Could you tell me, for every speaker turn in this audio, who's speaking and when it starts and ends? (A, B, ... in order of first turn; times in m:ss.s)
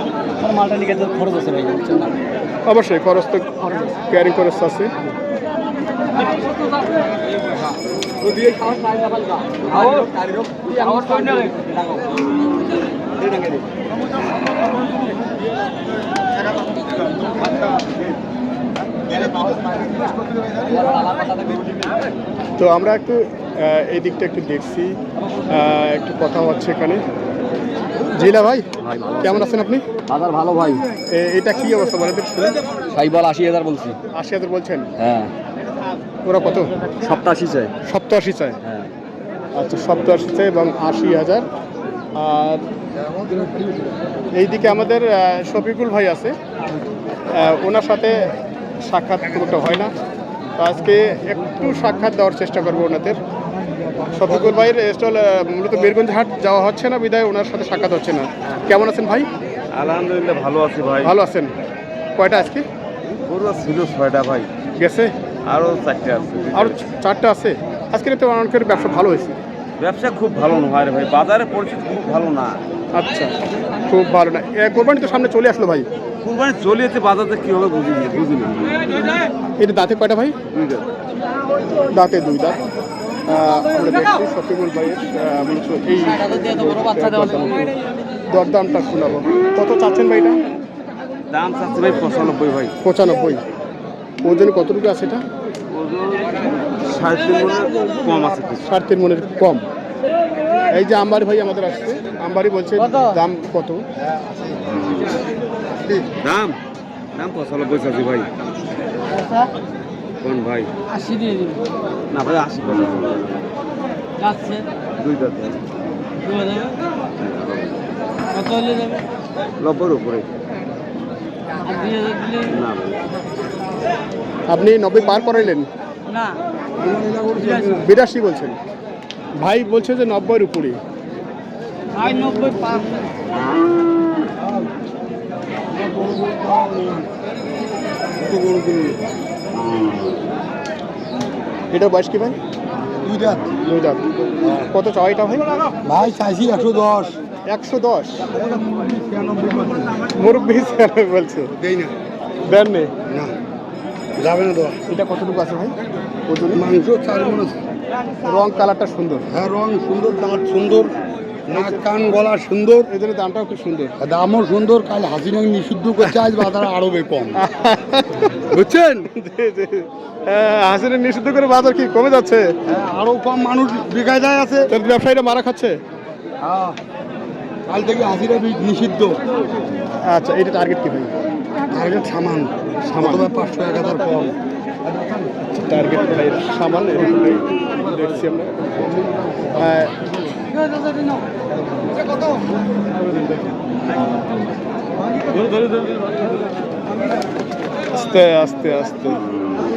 0:00.4-0:02.2 A
0:02.7-0:04.9 B
0:08.5-0:11.8 A
0:13.2-0:13.6 A
0:20.7-0:21.6 A
0:22.6-0:25.0 B
0:25.5-0:27.0 B
0:28.1-0:28.6 B
0:28.8-0:29.3 C
0:29.2-0:29.8 B
0:30.1-0:30.6 C
0:30.3-0:30.8 D
0:31.1-0:32.6 B
0:32.9-0:34.0 C
0:33.0-0:33.9 D
0:34.1-0:34.9 B
0:35.0-0:35.3 C
0:36.2-0:36.8 B
0:37.0-0:37.7 C
0:37.8-0:38.6 B
0:39.6-0:41.5 B
0:42.2-0:42.6 B
0:43.0-0:43.9 E
0:44.4-0:46.4 B
0:47.3-0:49.9 B
0:50.6-0:53.2 B
0:54.0-0:59.3 B
0:59.7-1:01.2 C
1:01.0-1:01.5 B
1:02.2-1:02.6 B
1:03.2-1:04.5 C
1:04.8-1:05.1 B
1:05.5-1:06.8 C
1:06.5-1:09.4 B
1:09.8-1:12.6 C
1:12.9-1:15.9 B
1:16.2-1:18.9 C
1:19.6-1:20.4 B
1:20.5-1:20.9 C
1:21.9-1:22.6 B
1:23.3-1:27.8 B
1:28.3-1:30.4 B
1:31.3-1:32.8 C
1:32.8-1:33.4 B
1:34.2-1:35.2 B
1:35.7-1:38.6 C
1:38.6-1:39.6 B
1:40.7-1:43.8 B
1:46.2-1:46.6 C
1:47.1-1:48.3 C
1:50.2-1:50.7 C
1:51.0-1:51.6 D
1:52.1-1:53.3 C
1:54.2-1:54.6 D
1:55.0-1:55.6 C
1:56.3-1:56.7 D
1:57.2-1:57.8 C
1:58.4-1:59.0 D
1:59.6-2:00.3 C
2:01.7-2:02.4 D
2:02.4-2:03.0 C
2:04.5-2:05.7 B
2:06.8-2:07.9 E
2:07.7-2:08.6 B
2:09.4-2:10.8 B
2:12.2-2:12.5 D
2:14.4-2:14.7 E
2:15.7-2:17.1 E
2:18.2-2:19.1 E
2:21.7-2:22.4 B
2:22.9-2:23.5 E
2:23.6-2:24.0 B
2:24.6-2:25.5 B
2:25.8-2:27.2 E
2:27.5-2:28.3 B
2:28.3-2:30.1 E
2:30.1-2:31.5 B
2:31.6-2:31.9 E
2:32.4-2:32.9 B
2:33.1-2:33.3 E
2:34.2-2:34.8 E
2:34.9-2:35.8 B
2:36.3-2:36.6 B
2:36.5-2:37.6 E
2:38.2-2:39.3 B
2:39.3-2:40.9 E
2:41.5-2:42.9 E
2:41.5-2:41.9 B
2:42.9-2:44.0 B
2:44.0-2:47.4 E
2:46.1-2:46.5 B
2:47.4-2:52.5 B
2:52.7-2:54.7 E
2:54.7-2:55.8 B
2:56.4-2:56.8 E
2:57.7-2:59.2 E
3:00.0-3:01.1 B
3:01.7-3:04.4 E
3:02.8-3:03.3 B
3:05.5-3:10.0 B
3:12.9-3:13.5 B
3:17.9-3:19.2 B